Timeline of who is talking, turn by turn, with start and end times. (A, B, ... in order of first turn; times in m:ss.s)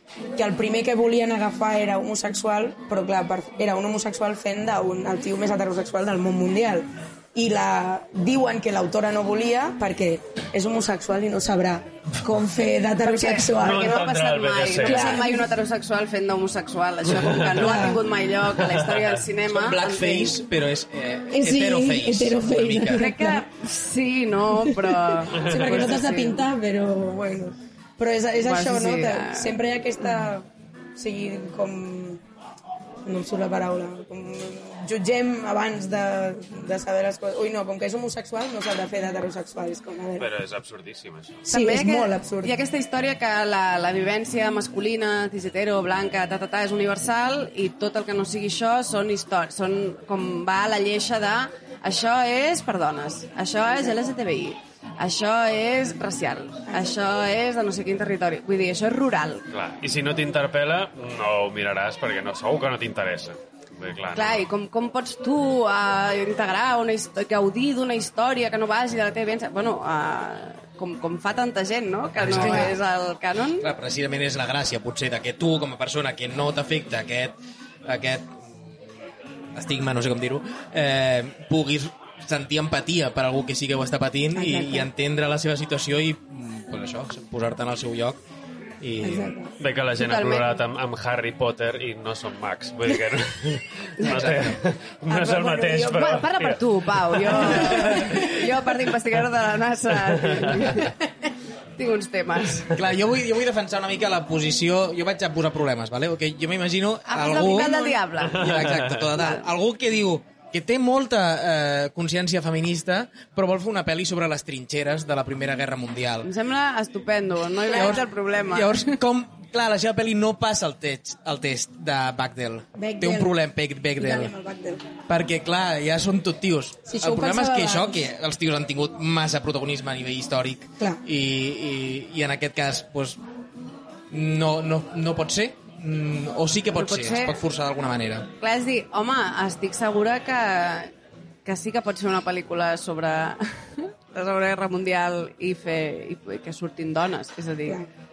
0:00.4-0:14.0 A
0:13.0-0:20.4 B
0:13.6-0:15.3 C
0:14.8-0:15.5 A
0:17.2-0:17.8 C
0:17.5-0:18.0 A
0:18.6-0:19.1 C
0:19.5-0:23.1 D
0:21.3-0:23.4 A
0:22.9-0:26.4 B
0:24.6-0:32.2 A
0:25.5-0:25.9 C
0:28.4-0:29.6 B
0:33.1-0:40.3 A
0:40.2-0:41.4 C
0:41.4-0:42.5 A
0:41.5-0:59.4 B
0:59.5-1:04.5 C
1:04.1-1:13.7 B
1:12.2-1:12.8 D
1:13.6-1:18.4 D
1:19.6-1:28.2 D
1:24.3-1:24.9 A
1:28.8-1:29.3 D
1:29.0-1:29.5 A
1:29.6-1:38.0 C
1:30.0-1:30.6 B
1:34.0-1:34.6 D
1:35.1-1:36.2 A
1:35.9-1:40.9 B
1:37.2-1:38.3 A
1:37.8-1:38.4 D
1:40.2-1:40.6 C
1:41.8-1:42.8 B
1:42.7-1:56.3 D
1:47.1-1:49.5 B
1:47.4-1:48.0 A
1:48.4-1:49.0 C
1:56.2-1:59.0 B
1:57.7-2:04.3 D
1:57.7-1:58.0 A
2:02.8-2:03.4 A
2:04.0-2:04.9 A
2:05.1-2:13.2 D
2:06.9-2:08.0 A
2:14.1-2:18.3 D
2:16.7-2:17.4 B
2:18.4-2:20.9 B
2:21.4-2:27.8 B